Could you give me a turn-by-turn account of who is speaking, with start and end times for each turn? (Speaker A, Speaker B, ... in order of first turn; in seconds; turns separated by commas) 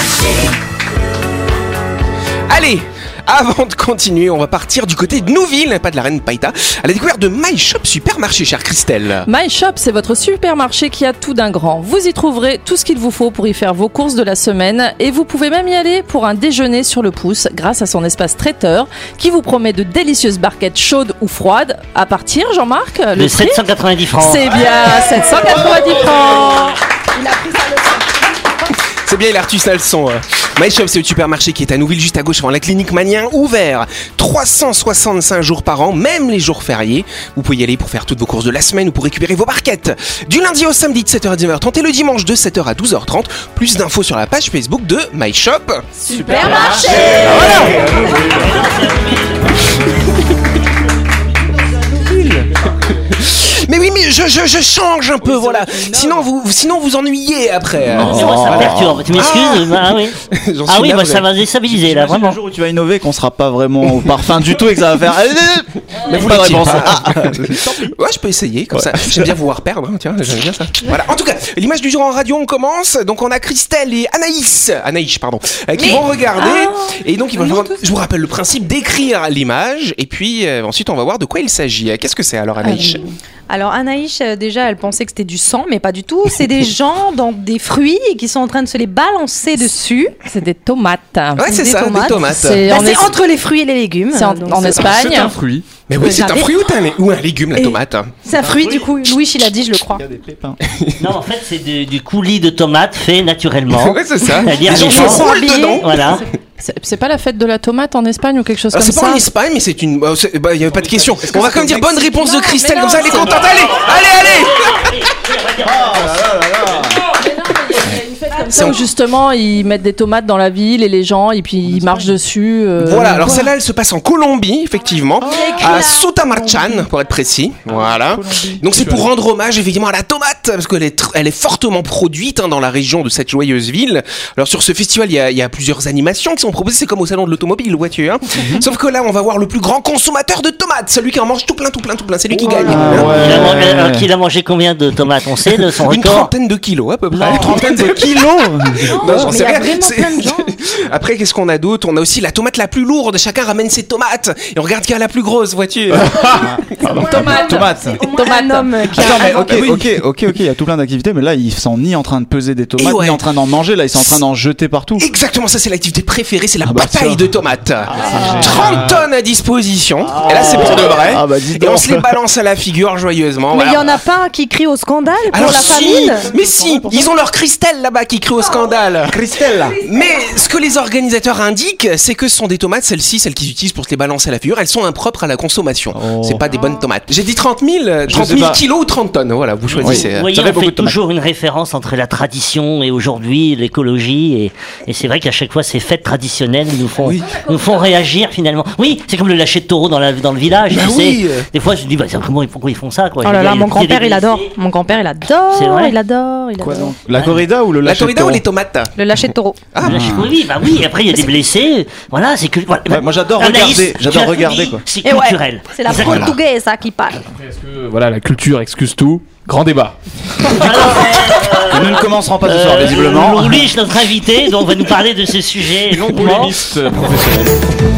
Speaker A: 2.5-9.3, Speaker B: 9.2-23.6, Speaker C: 23.1-24.5, Speaker B: 24.1-26.8, Speaker D: 24.8-28.7, Speaker A: 29.0-45.9, Speaker B: 46.0-47.4, Speaker D: 46.1-47.2, Speaker C: 46.4-49.7, Speaker E: 47.1-48.2, Speaker A: 47.4-47.6, Speaker F: 48.0-48.5, Speaker E: 51.9-52.5, Speaker A: 53.1-61.3, Speaker B: 55.2-56.2, Speaker E: 57.8-59.2, Speaker C: 58.0-60.2, Speaker C: 60.7-62.4, Speaker E: 61.7-68.0, Speaker A: 66.0-83.0, Speaker E: 68.7-69.3, Speaker D: 75.8-77.9, Speaker D: 83.5-90.2, Speaker B: 90.2-93.2, Speaker A: 91.4-92.8, Speaker D: 91.5-95.0, Speaker B: 94.1-95.4, Speaker F: 94.8-95.7, Speaker A: 95.9-98.2, Speaker D: 96.0-96.7, Speaker D: 97.6-100.0, Speaker E: 98.3-99.1, Speaker E: 99.9-100.6, Speaker A: 100.7-101.0, Speaker C: 101.0-106.2, Speaker A: 103.7-106.2, Speaker D: 104.5-106.2, Speaker B: 106.6-109.3, Speaker A: 108.7-114.9, Speaker E: 111.3-111.7, Speaker B: 111.3-113.5, Speaker C: 113.1-116.3, Speaker E: 115.6-117.0, Speaker B: 117.1-123.5, Speaker D: 118.3-118.8, Speaker A: 118.5-118.9, Speaker E: 121.6-122.1, Speaker A: 122.8-143.5, Speaker D: 125.2-126.8, Speaker E: 127.7-128.6, Speaker F: 128.7-129.1, Speaker E: 138.3-138.7, Speaker D: 142.4-143.2, Speaker E: 142.6-144.1, Speaker C: 143.2-146.3, Speaker A: 145.8-157.2, Speaker E: 147.1-149.4, Speaker D: 148.8-150.6, Speaker F: 155.9-156.5, Speaker E: 156.3-158.0, Speaker B: 157.0-159.3, Speaker D: 157.1-159.7, Speaker E: 158.9-165.1, Speaker A: 159.2-159.9, Speaker A: 162.8-163.2, Speaker A: 164.0-164.2, Speaker A: 165.0-174.0, Speaker E: 166.6-167.2, Speaker E: 167.9-168.9, Speaker D: 168.0-168.4, Speaker F: 168.5-169.0, Speaker E: 170.0-172.2, Speaker D: 173.5-176.3, Speaker A: 175.3-179.2, Speaker E: 175.4-177.2, Speaker E: 179.1-179.8, Speaker D: 179.7-180.4, Speaker A: 179.8-190.3, Speaker E: 185.9-186.4, Speaker D: 186.5-186.9, Speaker E: 188.1-188.6, Speaker C: 189.7-204.6, Speaker E: 189.8-190.9, Speaker B: 197.2-197.9, Speaker A: 200.7-201.5, Speaker D: 203.2-207.0, Speaker C: 205.5-206.0, Speaker E: 206.6-208.4, Speaker C: 207.2-207.4, Speaker A: 207.8-208.9, Speaker D: 209.0-209.6, Speaker A: 209.7-210.2, Speaker E: 209.8-210.3, Speaker C: 209.8-216.4, Speaker E: 212.9-214.8, Speaker D: 215.0-217.2, Speaker E: 216.0-216.3, Speaker F: 217.3-221.1, Speaker C: 220.5-226.6, Speaker E: 221.7-223.7, Speaker F: 226.0-227.6